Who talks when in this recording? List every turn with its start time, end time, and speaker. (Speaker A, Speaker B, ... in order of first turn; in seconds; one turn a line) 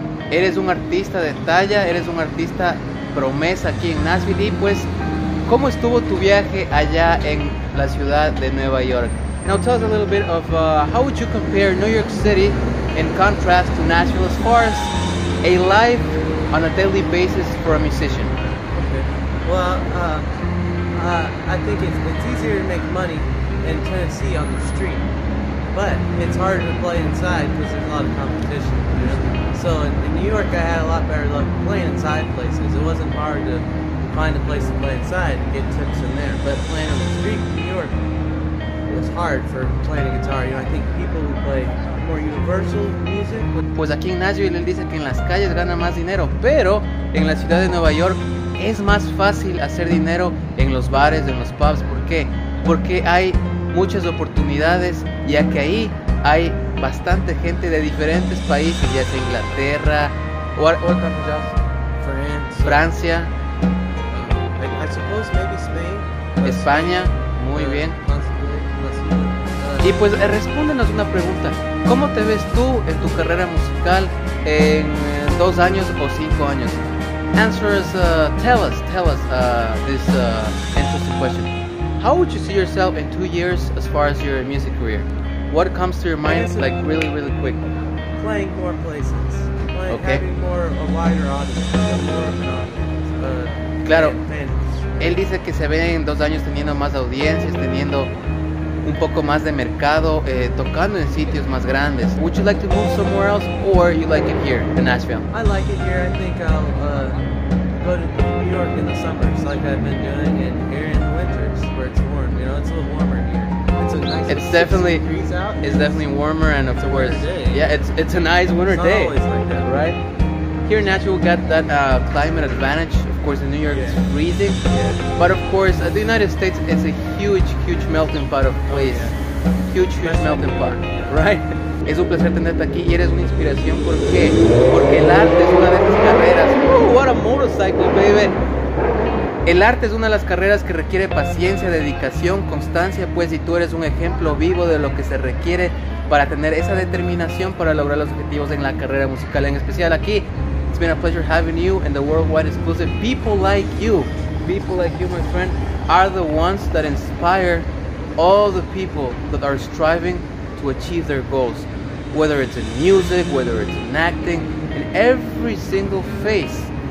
Speaker A: 0.3-4.9
Speaker A: 5.5-18.3
Speaker B: 18.7-20.3
Speaker B: 20.9-25.1
Speaker B: 25.7-38.0
Speaker B: 38.9-43.6
Speaker A: 43.8-61.5
Speaker B: 62.0-62.9
Speaker A: 62.6-63.3
Speaker B: 64.1-70.1
Speaker A: 66.4-68.0
Speaker A: 69.8-76.8
Speaker A: 77.3-87.6
Speaker B: 86.2-86.7
Speaker B: 88.1-95.2
Speaker A: 89.9-90.2
Speaker A: 93.8-94.2
Speaker A: 95.0-98.1
Speaker A: 98.8-105.3
Speaker B: 105.3-116.0
Speaker A: 114.3-115.0
Speaker A: 115.6-120.0
Speaker B: 116.8-117.9
Speaker B: 118.6-119.8
Speaker A: 120.7-124.6
Speaker B: 123.7-124.0
Speaker B: 124.6-125.0
Speaker A: 125.2-129.1
Speaker B: 128.7-129.2
Speaker A: 129.7-138.4
Speaker B: 130.0-131.2
Speaker A: 139.4-166.7